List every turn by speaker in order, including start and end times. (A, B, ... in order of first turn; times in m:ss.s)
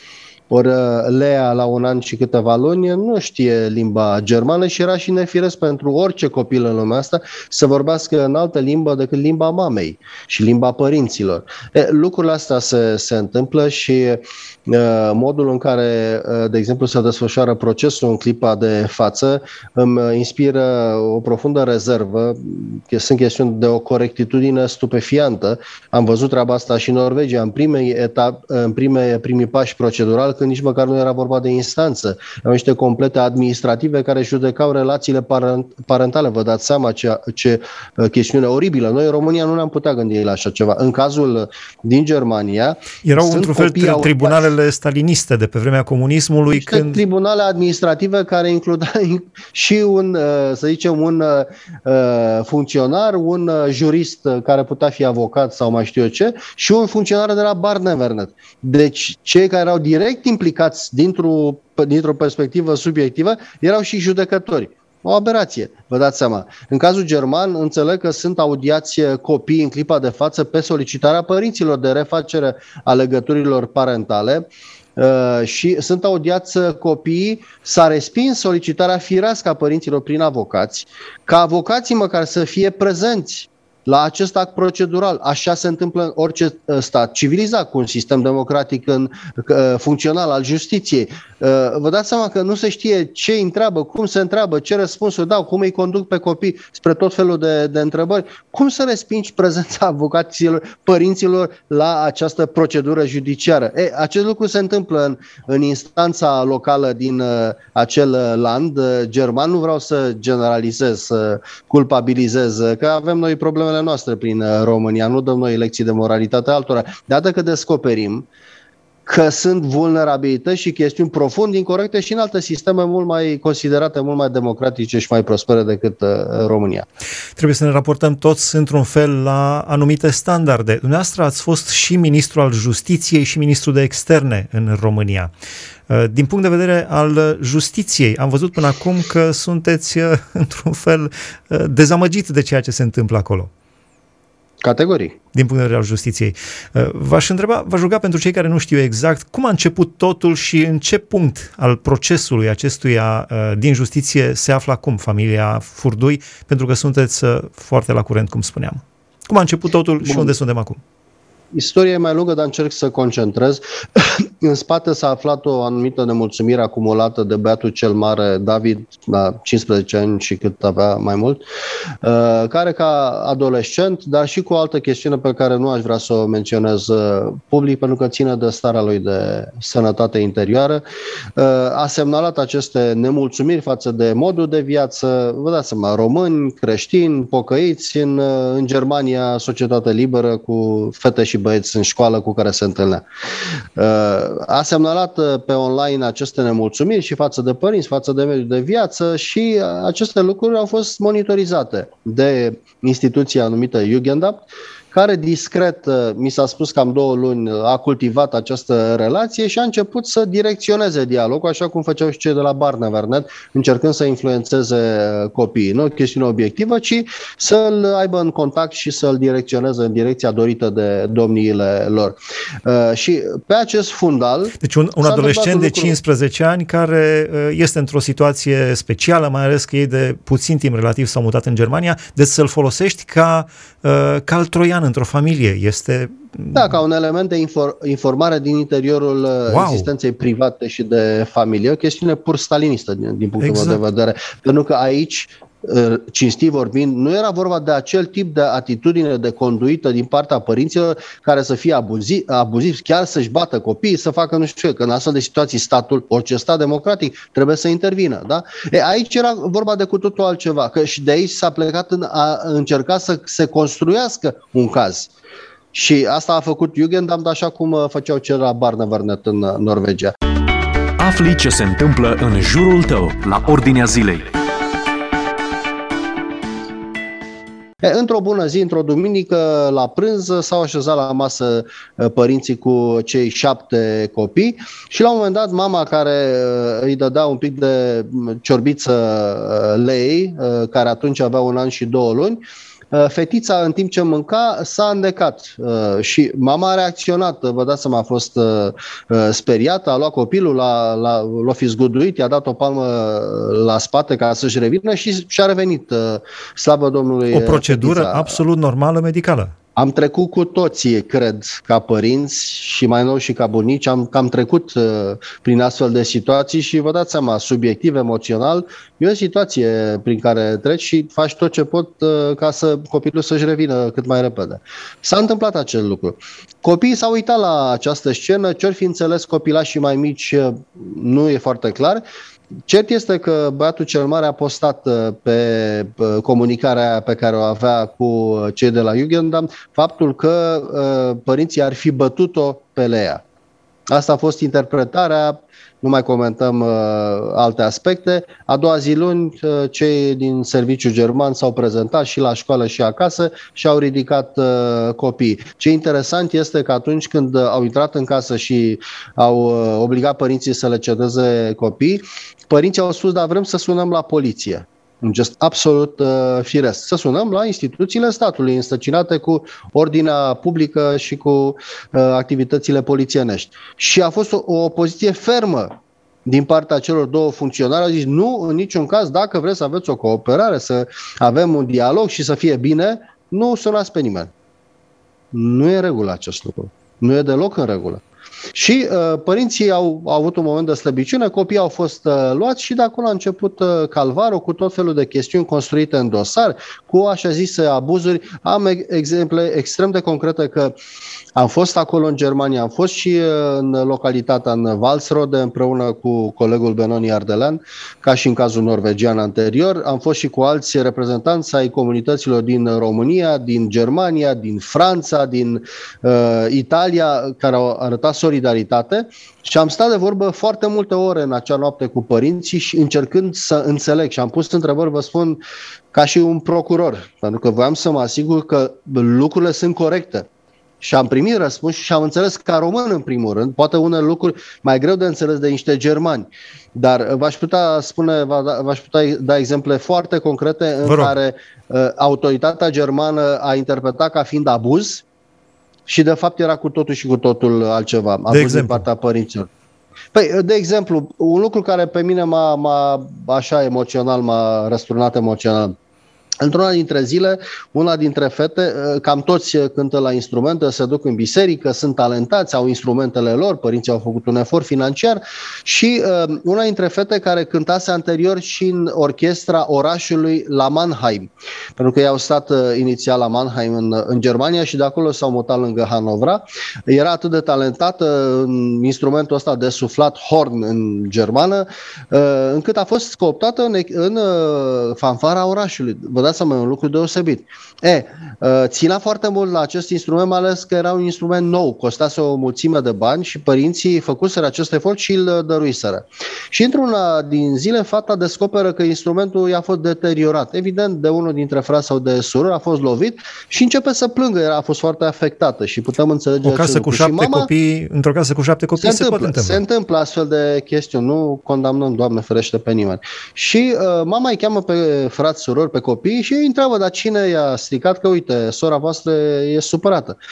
0:00.5-0:44.4 A
0:43.0-0:47.0 B
0:46.5-1:58.3 A
1:59.1-2:06.9 A
2:07.4-2:15.3 B
2:15.9-2:23.5 B
2:24.6-2:25.2 A
2:25.3-2:40.8 B
2:40.0-2:40.3 A
2:41.5-2:51.4 A
2:52.0-3:00.8 A
3:01.4-3:13.0 A
3:13.8-3:46.0 A
3:44.6-3:56.7 B
3:56.5-4:25.1 A
3:59.5-3:59.9 B
4:03.4-4:03.8 B
4:25.7-4:30.1 A
4:31.0-4:34.3 C
4:37.8-4:52.4 A
4:52.9-5:08.4 A
5:07.3-5:09.6 B
5:09.8-5:32.0 A
5:32.7-5:43.2 A
5:43.9-6:15.7 A
6:16.3-6:24.3 A
6:25.3-6:28.0 A
6:28.5-6:40.7 A
6:41.4-7:05.4 A
7:05.9-7:10.3 A
7:10.8-7:25.0 A
7:20.8-7:21.2 B
7:25.9-7:29.5 A
7:28.3-7:28.8 B
7:30.1-7:35.8 A
7:36.4-8:27.5 A
8:26.4-8:29.6 B
8:28.8-8:40.2 A